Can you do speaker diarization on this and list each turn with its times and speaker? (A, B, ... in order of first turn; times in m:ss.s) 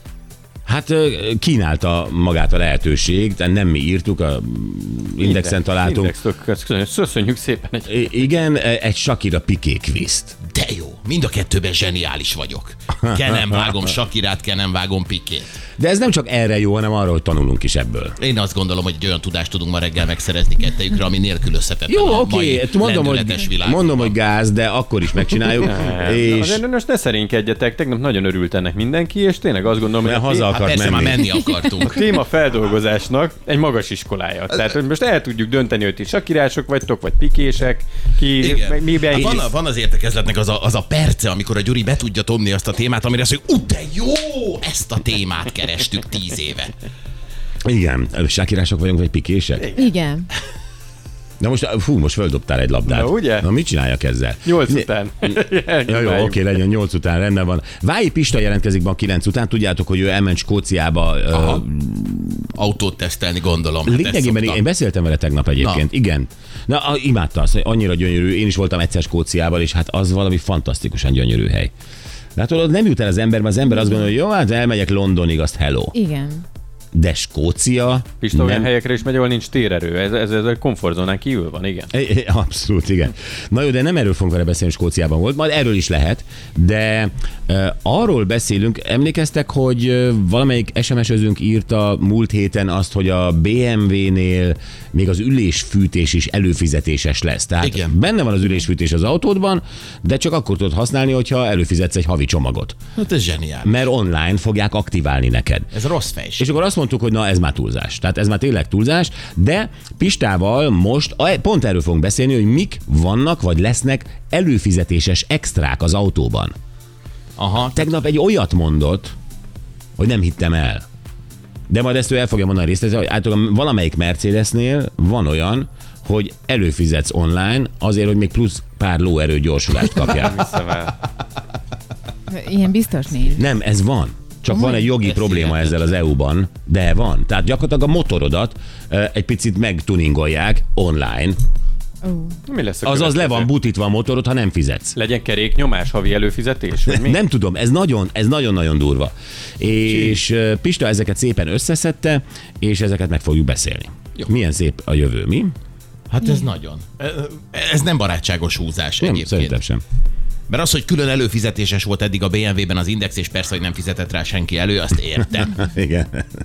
0:00.6-0:06.1 A
0:05.2-0:08.0 B
0:07.9-0:10.4 A
0:10.5-0:15.5 C
0:15.8-0:18.1 A
0:18.2-0:24.1 C
0:21.9-0:26.6 A
0:25.6-0:30.6 B
0:30.0-0:31.3 A
0:30.5-0:32.1 C
0:31.8-0:39.5 B
0:38.4-0:46.7 C
0:47.6-0:49.7 A
0:49.7-0:50.3 D
0:51.4-1:02.5 A
0:52.8-0:53.5 B
0:54.4-0:56.5 B
1:01.3-1:01.6 C
1:02.5-1:04.6 C
1:03.8-1:11.7 A
1:05.6-1:05.8 C
1:12.4-1:15.9 A
1:15.9-1:16.4 D
1:16.9-1:18.7 A
1:18.2-1:21.9 B
1:21.9-1:42.8 A
1:37.6-1:37.9 C
1:43.0-1:43.8 C
1:43.6-1:45.7 A
1:45.7-1:46.5 C
1:46.4-1:56.5 A
1:57.4-1:57.8 C
1:57.7-1:59.1 A
2:00.0-2:00.8 A
2:01.7-2:10.4 A
2:10.0-2:11.0 B
2:12.3-2:13.4 D
2:13.4-2:21.4 A
2:14.5-2:14.9 D
2:15.0-2:15.8 C
2:22.0-2:22.4 D
2:22.5-2:23.5 B
2:22.8-2:24.9 A
2:24.9-2:27.2 B
2:26.9-2:35.5 A
2:36.1-2:39.6 C
2:39.0-2:39.8 A
2:40.5-2:45.6 C
2:45.4-2:46.3 A